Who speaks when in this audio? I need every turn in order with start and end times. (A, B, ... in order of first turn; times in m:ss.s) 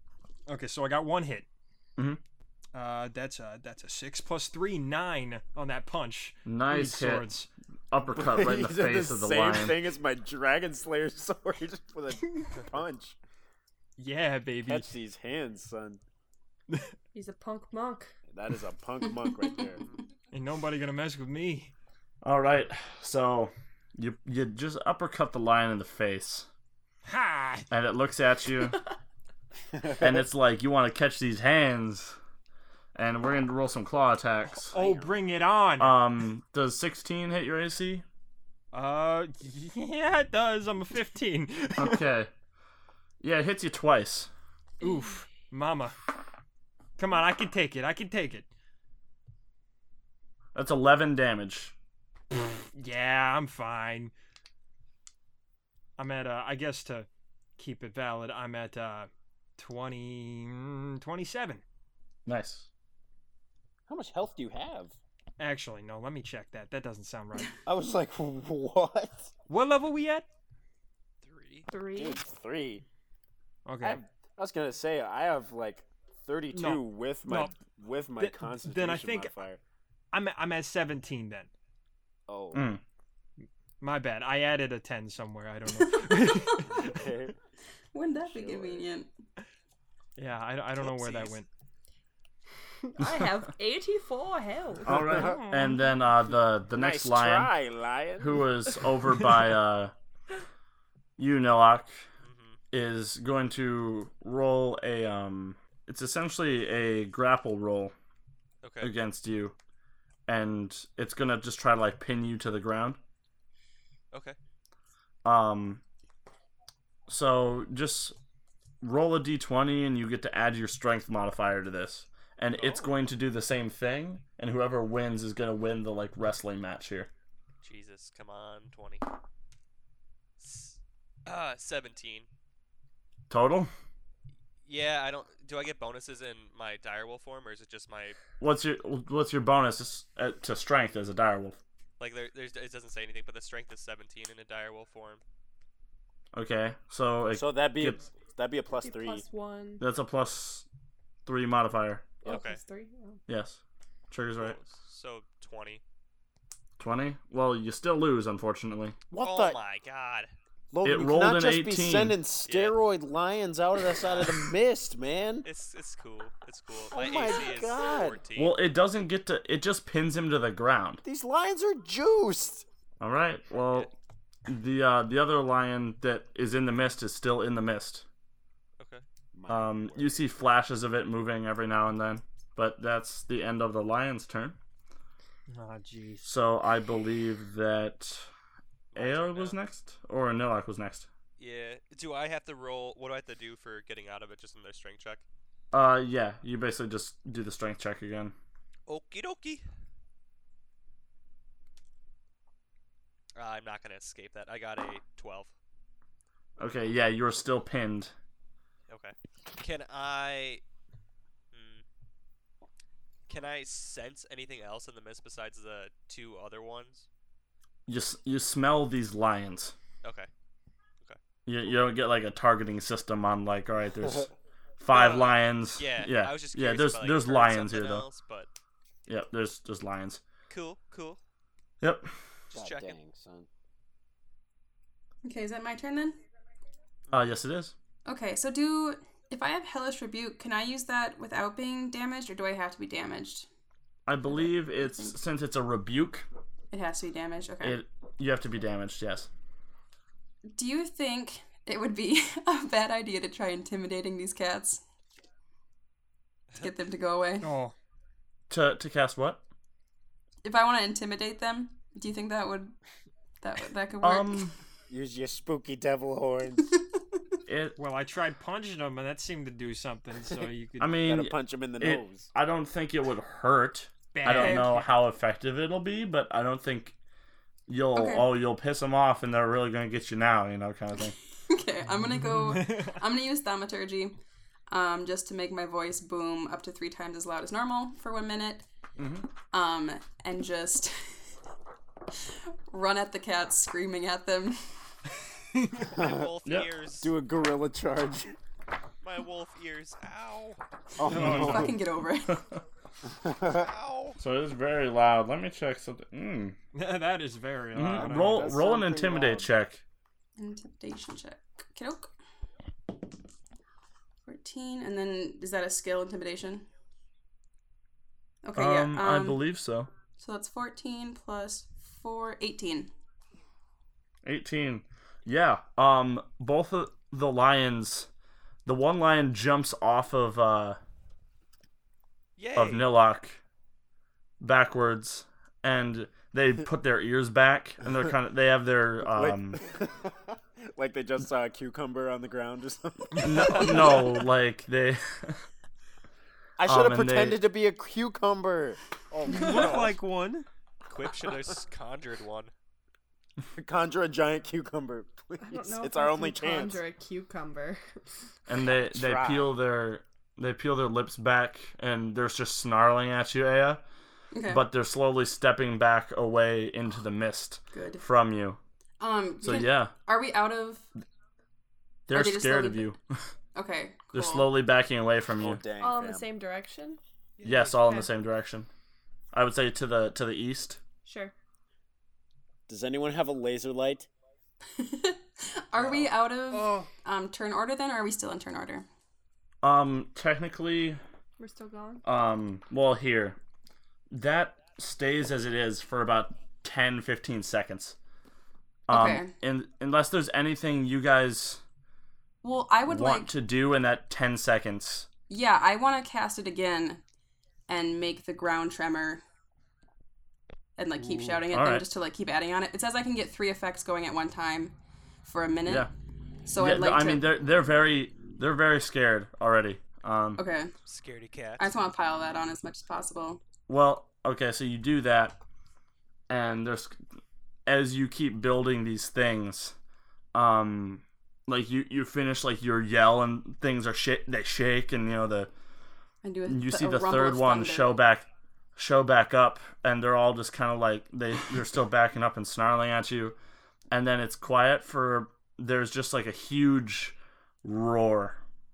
0:00.5-0:01.5 A
0:02.7-0:07.5 A
0:06.4-0:07.3 B
0:07.9-0:09.8 B
0:08.1-0:13.2 C
0:14.0-0:14.9 A
0:14.6-0:16.0 C
0:17.1-0:18.1 D
0:18.3-0:19.8 C
0:19.2-0:19.6 E
0:20.3-0:21.7 A
0:22.2-0:26.5 B
0:27.0-0:27.7 A
0:27.7-0:28.8 B
0:30.0-0:32.2 B
0:33.0-0:34.7 B
0:34.6-0:36.0 A
0:34.7-0:35.2 C
0:35.8-0:38.0 B
0:38.7-0:42.0 A
0:41.8-0:42.3 B
0:43.2-0:44.3 B
0:44.8-0:45.2 D
0:44.8-0:46.0 A
0:47.0-0:48.5 A
0:50.6-0:51.7 B
0:52.4-0:54.1 A
0:56.0-1:01.6 A
1:02.3-1:02.7 B
1:03.9-1:05.0 C
1:05.4-1:07.6 A
1:07.6-1:09.3 C
1:09.5-1:10.3 A
1:11.2-1:11.7 F
1:11.7-1:12.2 D
1:11.9-1:12.8 C
1:13.7-1:14.0 A
1:13.8-1:19.6 C
1:16.5-1:17.6 A
1:18.2-1:19.3 A
1:20.1-1:21.5 A
1:22.3-1:22.7 C
1:22.5-1:22.8 B
1:23.8-1:27.1 A
1:26.3-1:26.5 E
1:26.7-1:27.4 C
1:27.9-1:29.1 E
1:28.2-1:28.9 C
1:30.2-1:31.5 A
1:30.8-1:31.4 F
1:33.0-1:35.0 D
1:34.9-1:37.5 B
1:34.9-1:35.4 C
1:35.1-1:35.8 A
1:36.7-1:38.5 C
1:38.2-1:39.9 B
1:41.2-1:42.0 B
1:42.2-1:42.6 F
1:42.7-1:47.9 B
1:48.6-1:48.9 F
1:48.8-1:49.6 B
1:50.3-1:53.0 B
1:55.2-1:55.8 B
1:57.1-1:58.2 B
1:58.8-2:07.1 B
2:02.6-2:02.9 F
2:07.6-2:09.1 F
2:10.4-2:12.3 F
2:13.3-2:13.7 B
2:14.6-2:18.2 F
2:18.4-2:21.6 B
2:22.0-2:25.2 F
2:26.3-2:28.0 B
2:27.3-2:29.2 C
2:28.7-2:29.8 D
2:29.8-2:30.7 B
2:31.3-2:32.2 B
2:32.2-2:33.2 D
2:32.2-2:32.6 F
2:33.3-2:34.6 B
2:34.4-2:35.8 F
2:36.8-2:39.0 B
2:39.1-2:39.6 C
2:39.2-2:40.3 F
2:40.7-2:45.5 C
2:40.8-2:42.2 B
2:42.4-2:42.8 F
2:44.0-2:44.5 F
2:45.4-2:48.6 F
2:46.9-2:48.2 C
2:48.4-2:51.0 B
2:51.0-2:52.6 C
2:53.0-2:53.9 B
2:54.5-2:58.1 B
2:58.8-2:59.0 F
2:59.3-3:00.3 C
2:59.5-3:04.6 B
3:05.5-3:06.3 A
3:06.2-3:08.3 B
3:08.9-3:09.6 F
3:09.0-3:11.1 B
3:11.4-3:15.2 F
3:15.7-3:18.4 B
3:18.9-3:19.6 F
3:23.4-3:25.5 F
3:26.6-3:28.1 B
3:28.9-3:30.6 F
3:31.5-3:31.8 F
3:33.3-3:37.1 F
3:37.9-3:39.8 B
3:40.0-3:40.3 F
3:41.5-3:48.1 B
3:44.9-3:48.5 F
3:49.1-3:50.2 B
3:50.5-3:51.2 F
3:51.8-3:52.1 B
3:52.5-3:53.0 F
3:52.5-3:53.5 C
3:55.2-3:56.2 E
3:57.1-3:57.7 B
3:58.1-4:03.5 E
4:04.1-4:06.3 B
4:04.3-4:05.2 E
4:06.7-4:07.8 E
4:07.6-4:09.3 B
4:10.5-4:14.8 E
4:16.6-4:17.5 E
4:17.4-4:17.7 A
4:18.5-4:19.4 B
4:20.4-4:22.8 E
4:23.4-4:24.5 E
4:24.0-4:24.6 B
4:24.9-4:26.8 C
4:26.7-4:27.2 E
4:27.5-4:27.8 B
4:27.8-4:31.1 A
4:30.8-4:37.0 B
4:31.0-4:32.3 C
4:34.1-4:34.9 A
4:37.7-4:41.2 B
4:38.0-4:38.3 E
4:41.5-4:44.2 E
4:42.2-4:43.0 A
4:44.7-4:48.7 E
4:49.0-4:49.3 B
4:49.5-4:51.3 E
4:52.7-4:54.8 E
4:55.8-4:57.1 F
4:55.9-4:56.3 C
4:56.4-4:56.7 B
4:57.0-4:58.4 C
4:59.0-5:00.6 F
5:01.0-5:01.7 C
5:01.1-5:02.6 B
5:01.1-5:01.7 A
5:01.4-5:02.4 E
5:03.1-5:03.7 C
5:03.4-5:04.2 F
5:04.2-5:06.6 B
5:06.7-5:08.6 A
5:07.7-5:09.8 B
5:07.9-5:09.5 C
5:10.4-5:12.1 E
5:14.3-5:16.7 E
5:18.4-5:19.4 E
5:18.6-5:19.9 B
5:20.2-5:22.9 E
5:24.2-5:28.1 B
5:28.6-5:30.8 B
5:32.4-5:32.9 F
5:32.6-5:33.4 B
5:34.4-5:39.6 B
5:39.1-5:44.2 C
5:43.2-5:45.4 B
5:43.5-5:43.9 F
5:46.6-5:50.0 C
5:46.6-5:47.4 B
5:49.3-5:50.5 A
5:50.9-5:52.5 F
5:53.6-5:56.8 C
5:55.4-5:58.2 D
5:58.5-6:03.8 B
5:58.6-5:59.5 C
6:04.3-6:04.6 E
6:04.5-6:08.6 B
6:07.7-6:08.0 E
6:09.0-6:10.9 E
6:09.4-6:09.9 B
6:12.1-6:13.2 B
6:12.1-6:12.9 E
6:13.6-6:14.5 E
6:14.1-6:15.6 B
6:15.4-6:16.3 C
6:15.8-6:17.0 D
6:17.4-6:17.8 F
6:17.4-6:18.7 B
6:17.8-6:18.1 D
6:19.3-6:20.8 B
6:21.1-6:21.3 D
6:22.7-6:24.1 C
6:24.8-6:28.9 E
6:25.8-6:26.9 A
6:29.6-6:31.0 B
6:31.4-6:32.0 D
6:32.0-6:33.4 B
6:34.1-6:38.0 B
6:38.9-6:41.6 B
6:38.9-6:39.3 E
6:42.4-6:43.3 E
6:42.9-6:45.1 B
6:45.3-6:47.0 E
6:47.7-6:49.2 E
6:50.8-6:54.7 E
6:51.1-6:51.4 A
6:51.5-6:51.9 B
6:55.2-6:55.9 E
6:56.5-6:57.2 E
6:56.6-7:00.4 B
7:00.4-7:00.7 E
7:00.9-7:01.6 F
7:01.6-7:03.4 E
7:03.7-7:05.4 B
7:06.3-7:07.0 B
7:07.7-7:09.8 B
7:10.3-7:15.5 B
7:16.2-7:18.0 E
7:16.5-7:23.4 B
7:23.9-7:28.4 B